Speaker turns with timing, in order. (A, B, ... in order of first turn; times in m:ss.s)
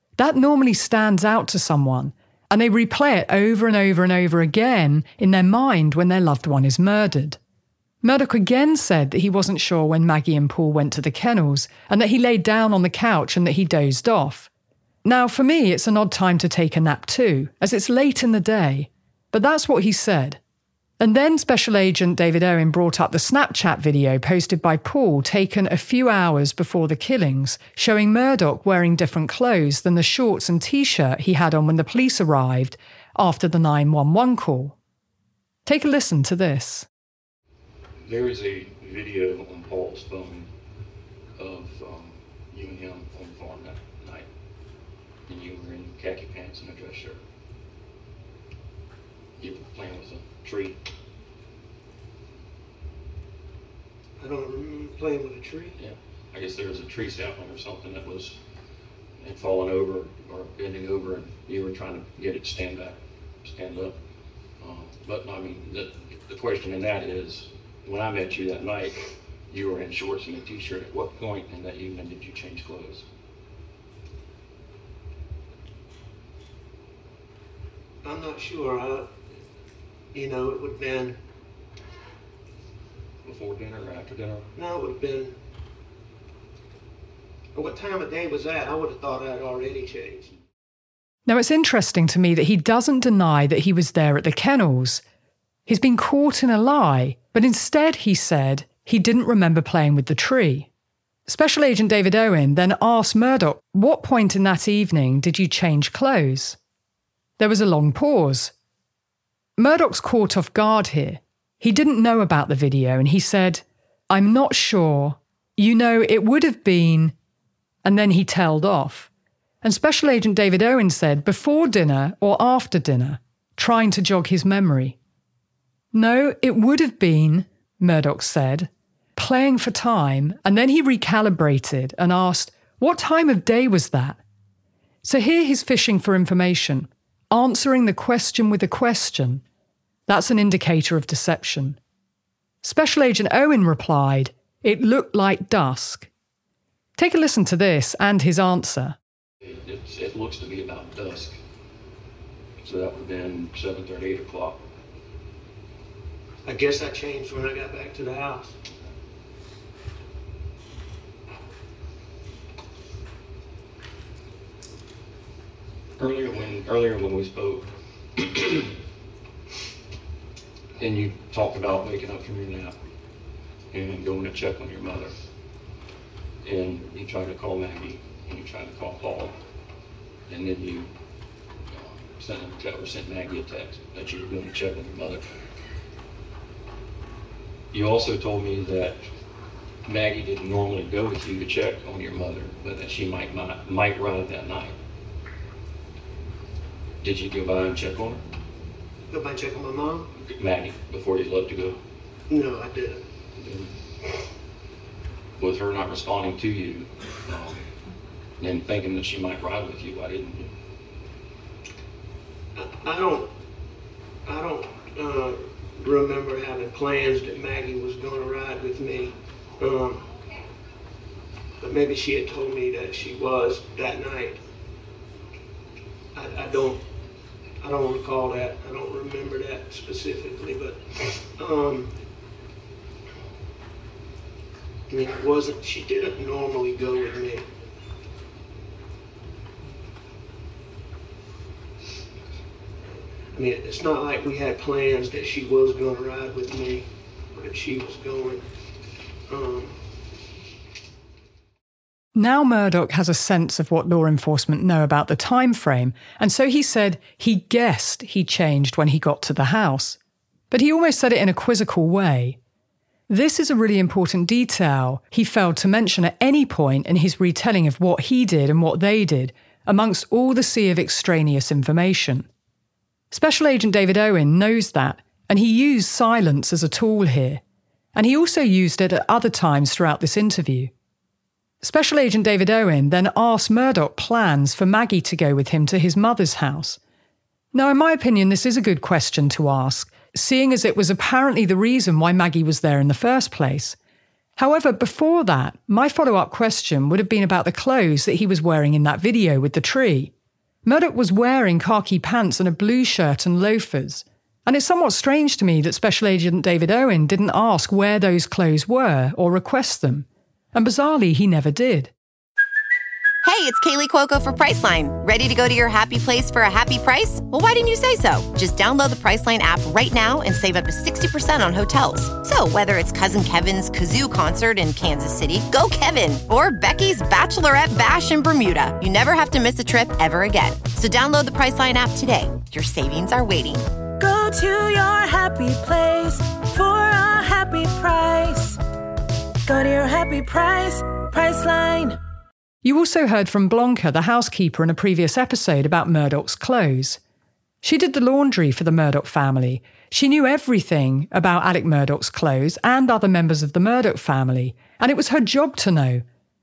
0:00.2-0:07.4 A
0:08.0-0:14.5 A
0:15.0-0:20.4 A
0:21.0-0:34.8 A
0:35.6-0:36.9 A
0:38.0-0:40.5 B
0:41.4-0:44.3 B
0:45.3-0:47.2 B
0:49.4-0:50.8 B
0:54.2-0:55.7 C
0:55.8-0:58.4 B
0:59.2-1:04.0 B
1:04.6-1:13.0 B
1:18.0-1:19.1 C
1:20.1-1:21.2 C
1:23.2-1:24.5 B
1:24.6-1:25.3 C
1:27.5-1:30.4 C
1:31.3-1:35.0 A
1:35.7-1:40.7 A
1:41.3-1:46.6 A
1:47.4-1:48.5 A
1:49.6-1:57.1 A
1:57.8-1:59.1 A
1:59.6-2:05.0 A
2:05.9-2:14.2 A
2:15.0-2:19.4 A
2:20.1-2:21.8 A
2:22.6-2:26.1 A
2:27.0-2:29.0 A
2:29.4-2:31.4 B
2:32.6-2:34.6 B
2:36.4-2:38.5 C
2:46.0-2:48.7 B
2:50.8-2:52.7 B
2:53.7-2:55.1 B
2:56.4-2:59.4 B
3:00.3-3:00.9 B
3:01.7-3:05.2 B
3:07.7-3:09.0 B
3:09.8-3:14.7 B
3:17.0-3:18.2 B
3:19.1-3:20.1 C
3:20.2-3:21.8 B
3:22.3-3:23.0 C
3:23.3-3:23.7 B
3:25.4-3:27.6 B
3:28.4-3:30.5 B
3:32.5-3:33.3 C
3:34.2-3:40.1 C
3:41.6-3:44.4 C
3:46.1-3:46.8 C
3:47.6-3:51.9 C
3:54.9-3:57.5 C
4:03.3-4:08.4 C
4:09.3-4:09.8 C
4:12.1-4:20.0 A
4:20.5-4:22.4 A
4:23.1-4:32.3 A
4:33.1-4:37.4 A
4:37.9-4:40.7 A
4:41.6-4:46.8 A
4:47.5-4:53.8 A
4:54.4-5:00.1 A
5:00.6-5:11.9 A
5:13.2-5:33.7 D
5:34.0-5:38.6 E
5:39.4-5:42.0 E
5:42.6-5:47.0 A
5:47.6-5:56.0 A